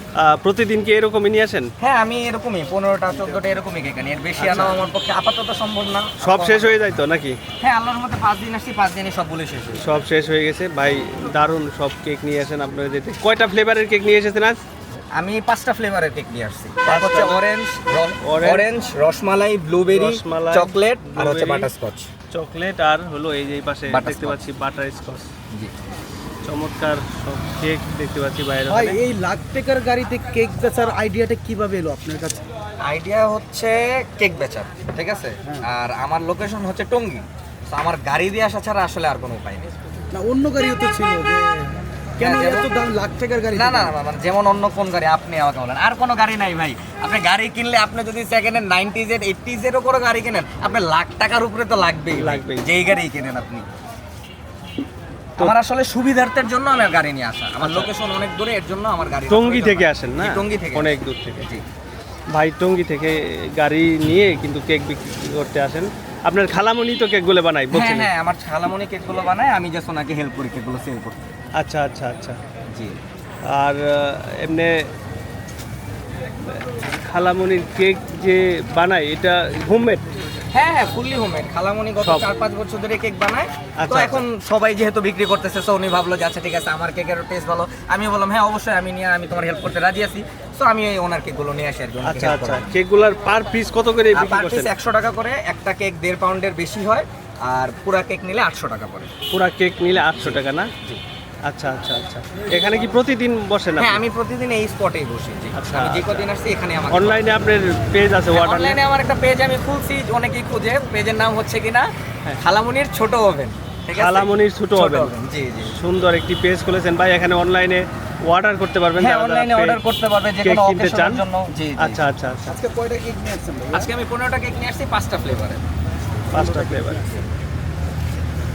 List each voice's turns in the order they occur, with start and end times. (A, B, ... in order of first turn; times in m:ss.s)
0:00.2-0:01.7 A
0:01.8-0:06.8 B
0:04.4-0:04.8 A
0:06.2-0:07.4 A
0:07.6-0:09.9 B
0:09.8-0:14.6 A
0:15.1-0:22.1 B
0:16.8-0:17.4 A
0:18.2-0:18.6 A
0:19.9-0:21.7 A
0:22.3-0:25.3 A
0:23.9-0:24.4 B
0:26.4-0:29.0 A
0:28.7-0:32.4 C
0:32.8-0:39.7 B
0:40.1-0:43.9 C
0:42.2-0:42.7 B
0:43.5-0:53.6 B
0:52.1-0:52.7 A
0:55.4-1:01.6 B
0:57.6-0:57.9 A
0:59.3-1:01.4 A
1:02.3-1:08.1 A
1:07.7-1:11.2 B
1:11.6-1:12.4 A
1:12.7-1:13.0 B
1:13.4-1:14.9 A
1:16.5-1:20.1 A
1:20.5-1:32.8 B
1:23.8-1:24.2 A
1:32.0-1:34.7 A
1:34.1-1:39.1 B
1:39.3-1:40.7 A
1:40.2-1:41.0 B
1:41.5-1:44.0 A
1:43.8-1:47.3 B
1:45.5-1:46.2 A
1:46.9-1:48.8 A
1:48.3-1:55.8 B
1:53.9-1:55.1 A
1:55.7-1:59.8 A
1:59.0-2:02.0 B
2:00.4-2:01.2 A
2:01.8-2:02.6 A
2:02.5-2:03.9 C
2:03.7-2:05.6 B
2:06.3-2:07.1 A